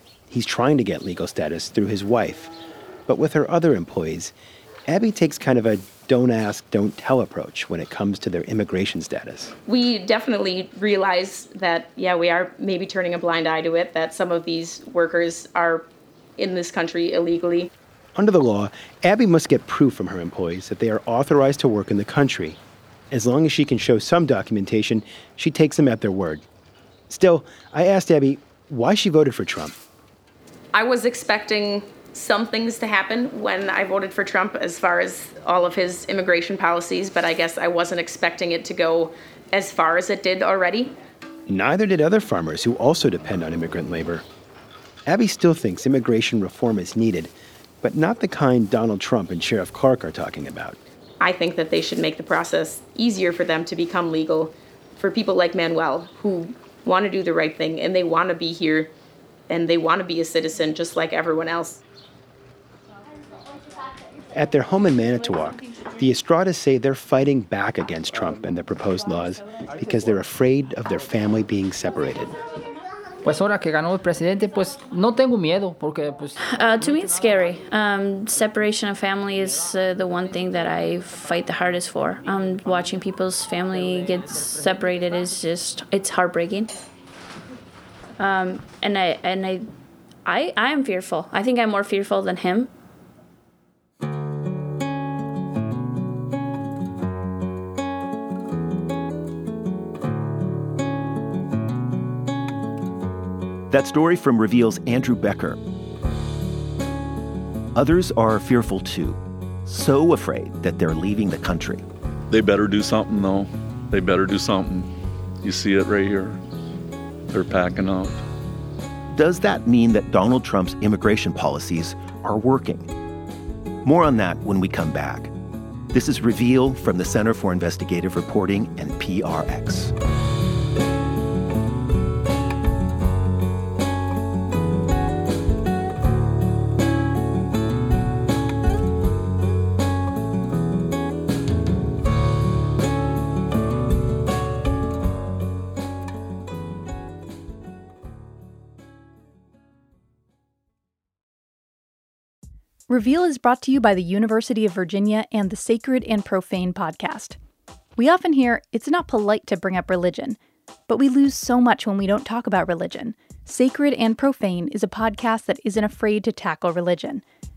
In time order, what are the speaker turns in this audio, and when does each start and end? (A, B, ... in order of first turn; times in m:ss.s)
0:00.3-0:02.5 A
0:03.1-0:04.3 A
0:04.9-0:09.5 A
0:09.7-0:15.9 B
0:16.4-0:17.7 B
0:18.1-0:22.6 A
0:23.1-0:26.4 A
0:27.1-0:29.8 A
0:30.7-0:41.0 B
0:41.5-0:44.2 A
0:45.1-0:50.8 A
0:51.2-0:58.9 B
0:59.5-1:01.8 B
1:04.3-1:12.4 A
1:13.2-1:16.4 C
1:16.4-1:26.7 D
1:28.2-1:29.7 D
1:30.2-1:32.7 D
1:43.7-1:45.6 E
1:47.7-1:51.8 E
1:52.3-1:54.9 F
1:55.4-1:56.4 F
1:57.3-1:58.2 F
1:59.1-2:02.9 E
2:03.8-2:05.3 E
2:05.9-2:09.9 E
2:32.9-2:37.4 G
2:38.0-2:47.2 G